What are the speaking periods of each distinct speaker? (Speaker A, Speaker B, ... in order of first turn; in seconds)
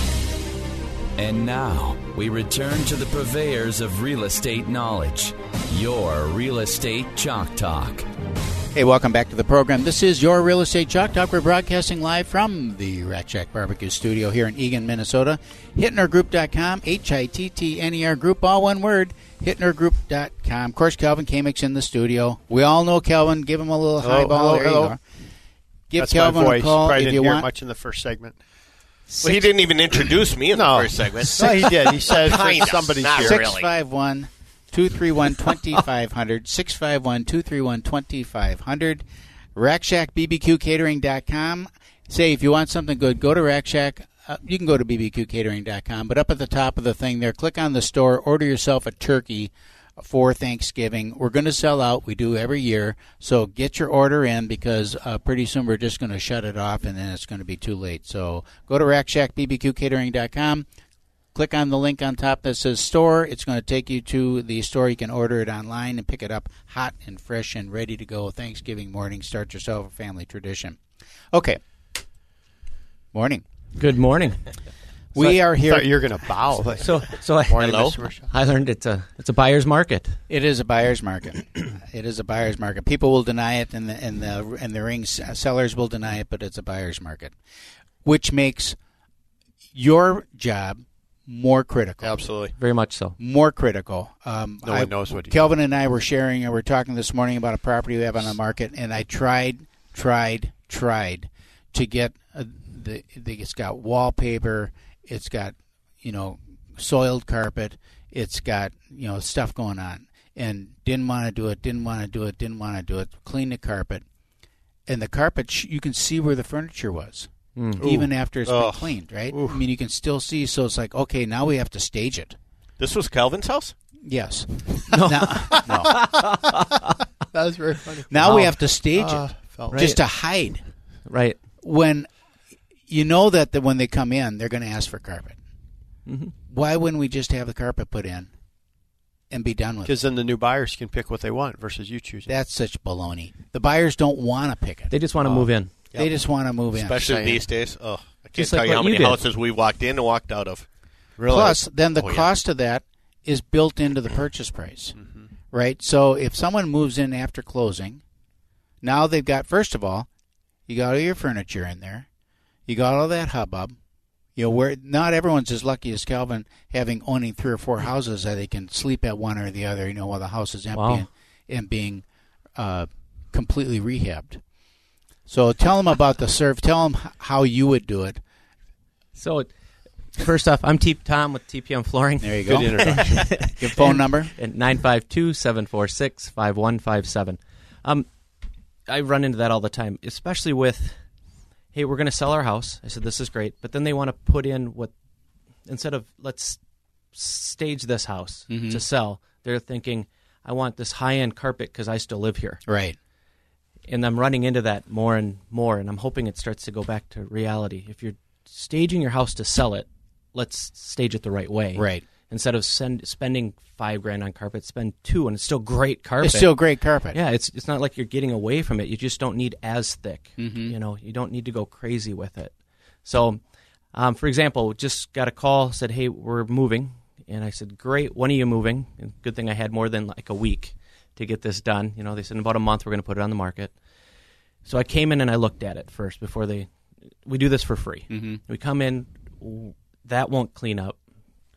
Speaker A: 1.2-8.1
Speaker B: 8.7-25.0, 25.9-27.4, 29.1-29.4, 33.1-39.0, 39.5-60.6, 61.3-70.8, 71.3-71.6, 73.1-73.4, 75.1-75.9, 80.3-87.3, 88.0-88.8, 89.7-92.2, 93.2-114.0, 114.9-122.3, 124.0-125.9, 128.1-130.6, 131.6-132.1, 132.9-135.4, 136.5-138.3, 139.3-140.0, 142.3-145.0, 145.9-147.3, 151.3-154.9, 155.5-158.0, 158.8-160.1, 160.7-162.1, 162.7-163.8, 164.3-172.0, 172.6-174.4, 175.3-178.2, 182.2-184.3, 198.5-198.8, 202.7-202.9, 211.7-212.0, 216.2-217.2, 220.4-220.7, 238.1-238.4
Speaker C: 24.0-24.9, 26.0-28.4, 30.5-33.5, 75.2-78.3, 92.0-92.5, 94.6-95.5, 117.8-118.1, 119.3-119.6, 127.3-129.9, 139.8-142.3, 145.2-145.5, 147.0-147.4
Speaker D: 29.2-33.7, 92.0-92.5, 118.4-118.9, 122.8-123.7, 146.7-150.7, 151.2-152.3
Speaker E: 73.8-74.4, 76.8-80.2, 92.6-93.2, 117.5-117.8, 124.9-126.9, 128.2-128.5, 129.7-130.0, 131.1-131.4, 136.1-136.3, 144.9-145.7, 148.3-149.2, 170.7-171.1, 179.2-179.5, 180.2-188.1, 188.9-190.9, 191.7-194.9, 195.7-196.6, 197.1-202.6, 203.9-216.6, 217.1-222.5, 223.0-223.4, 223.9-233.7, 234.6-236.7, 237.2-241.0